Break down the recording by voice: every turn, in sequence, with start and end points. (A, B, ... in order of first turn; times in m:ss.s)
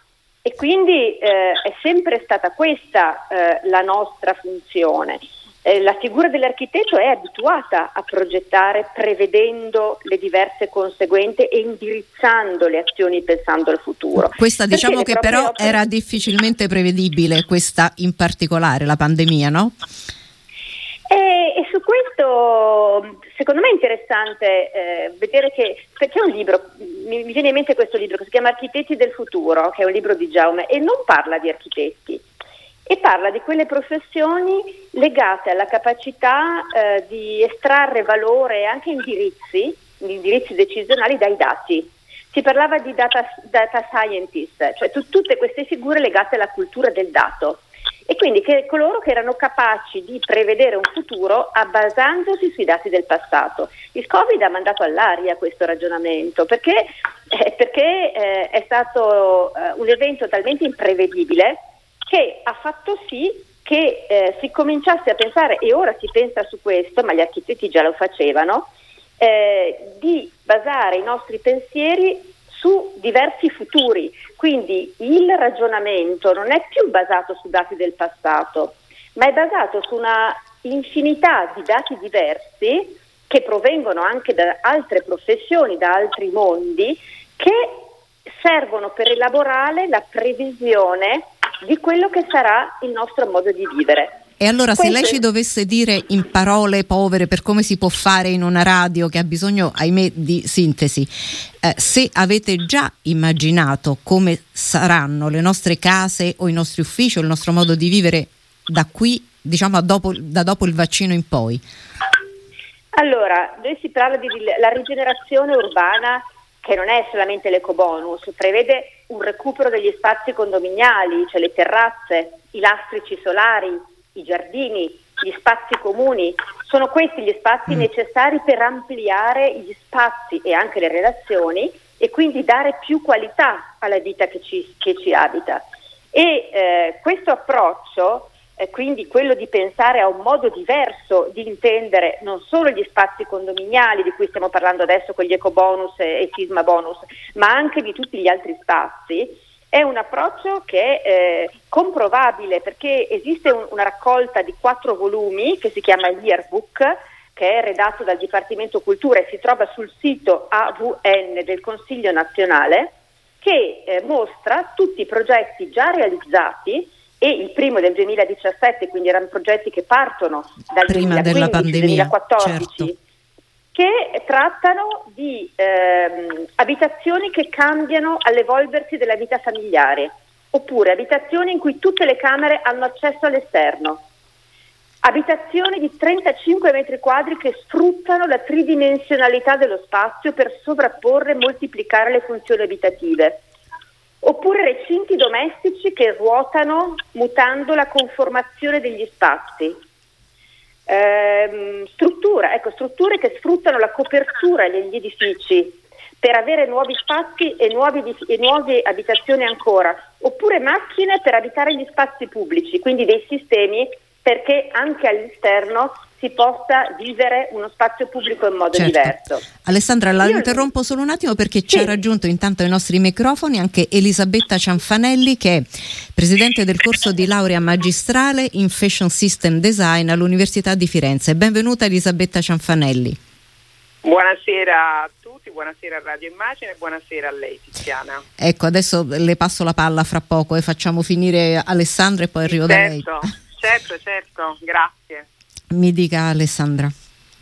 0:00.4-0:15.8 A
0:14.2-0:19.8 B
0:21.1-0:32.2 A
0:32.9-1:34.2 A
1:34.4-1:51.6 B
1:34.8-1:35.2 A
1:52.9-2:52.9 A
2:50.8-2:52.9 B
2:53.7-3:04.0 A
3:05.0-3:13.4 A
3:14.2-3:19.8 A
3:20.9-3:39.4 A
3:38.7-3:53.2 B
3:40.2-3:40.6 A
3:54.0-3:58.2 C
3:58.4-4:03.2 B
4:02.5-4:05.2 C
4:05.7-4:06.9 B